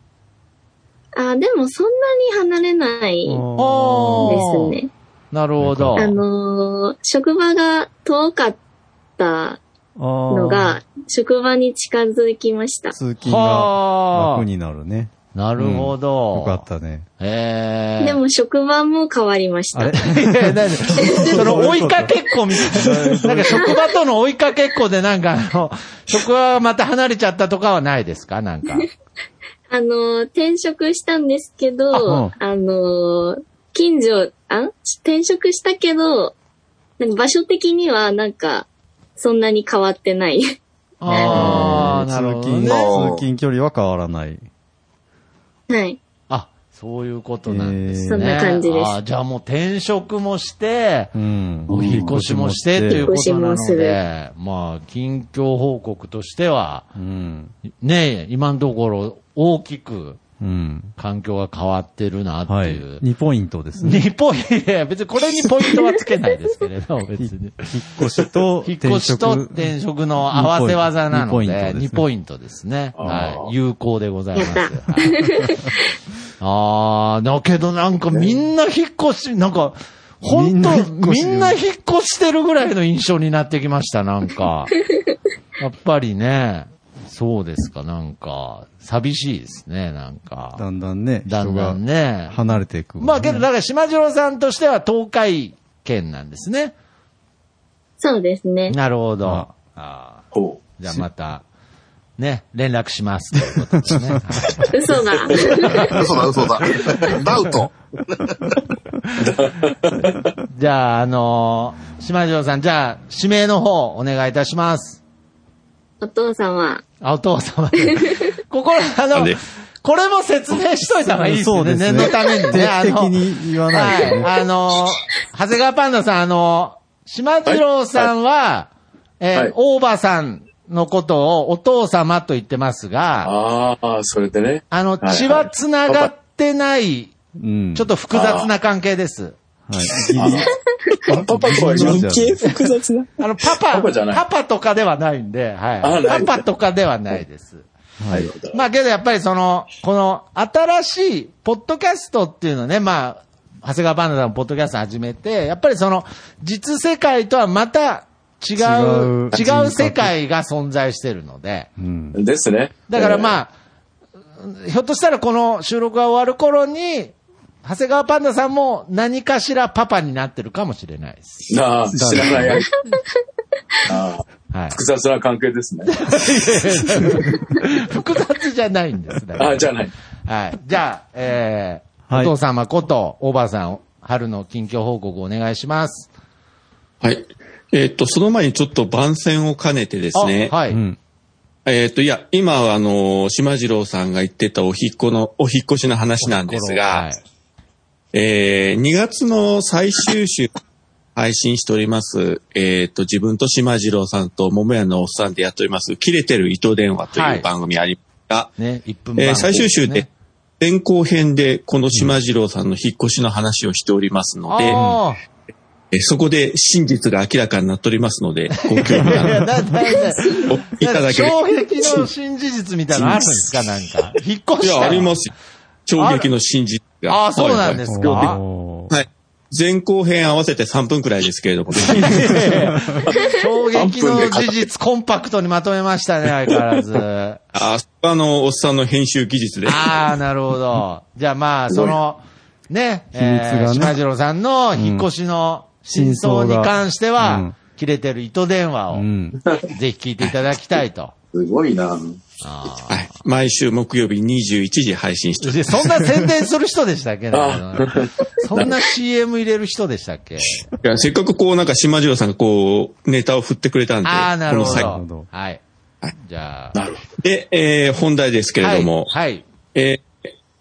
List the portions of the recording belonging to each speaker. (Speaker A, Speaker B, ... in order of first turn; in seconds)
Speaker A: 1.1-3.4, 4.2-4.9, 6.0-8.6, 9.2-9.6, 10.3-12.9, 18.0-20.0, 21.0-21.4, 29.7-36.4, 37.0-40.5, 41.1-41.5, 45.7-46.0, 48.1-49.0, 53.0-54.0, 74.3-75.6, 98.0-98.8, 104.7-106.0, 116.0-116.8
Speaker B: 3.2-4.4, 5.6-6.2, 10.0-10.8, 12.9-17.1, 19.7-23.7, 31.9-32.3, 41.1-44.4, 47.5-48.5, 51.1-53.1, 56.9-57.5, 60.4-60.9, 62.5-64.0, 67.2-69.7, 70.3-72.1, 80.2-81.6, 90.6-93.5, 103.9-104.1, 121.1-124.3, 137.4-137.9, 139.7-140.5, 141.1-142.4, 148.0-148.3, 158.6-160.1, 161.8-162.2, 171.9-172.6, 190.7-191.0, 214.7-215.0, 219.1-219.4, 227.9-228.9, 231.9-233.0, 243.1-244.0, 244.8-245.1, 245.9-247.5, 248.9-249.4, 264.6-265.3
Speaker C: 3.6-4.8, 5.3-6.1, 13.2-14.4, 15.3-16.6, 17.2-18.2, 20.0-28.9, 41.0-42.9, 46.3-51.1, 51.7-56.9, 57.8-60.2, 61.0-63.0, 63.8-67.7, 68.6-75.2, 76.4-84.7, 85.6-90.6, 91.2-96.7, 98.7-100.2, 100.8-101.4, 102.2-104.6, 105.4-106.0, 110.5-115.0, 117.0-133.3, 134.7-137.1, 137.7-139.4, 143.2-147.7, 148.5-161.7, 162.9-163.5, 164.4-171.5, 174.5-174.8, 175.9-179.7, 180.2-186.1, 190.1-190.8, 196.2-197.2, 207.1-207.5, 208.6-210.1, 214.5-215.2, 218.6-225.2, 226.0-226.3, 227.1-228.4, 231.8-237.4, 239.6-249.1, 249.7-251.1, 252.4-253.1, 255.4-260.7, 264.0-265.6, 266.1-266.8, 268.6-269.4
Speaker D: 22.9-23.2, 51.7-52.0, 140.0-140.4, 141.1-143.1
Speaker E: 42.6-43.2, 105.9-108.3
Speaker F: 73.0-73.5, 100.3-100.6, 109.2-110.3, 127.5-128.1, 133.2-136.1, 138.1-138.5, 140.2-140.5, 141.1-142.1, 143.7-144.2, 145.8-146.4, 148.1-148.6, 162.1-163.4, 171.5-172.7, 173.9-176.1, 179.4-179.9, 233.7-234.6, 251.3-252.2, 257.3-258.8, 266.7-267.0
Speaker G: 187.0-190.6, 191.7-197.1, 198.1-200.5, 201.2-208.5, 209.2-210.1, 210.6-214.8, 215.9-219.4, 220.5-221.4, 224.6-225.3, 225.9-228.4, 228.9-232.2, 237.5-240.0, 252.9-255.9, 260.8-264.9, 267.2-269.1, 269.7-270.1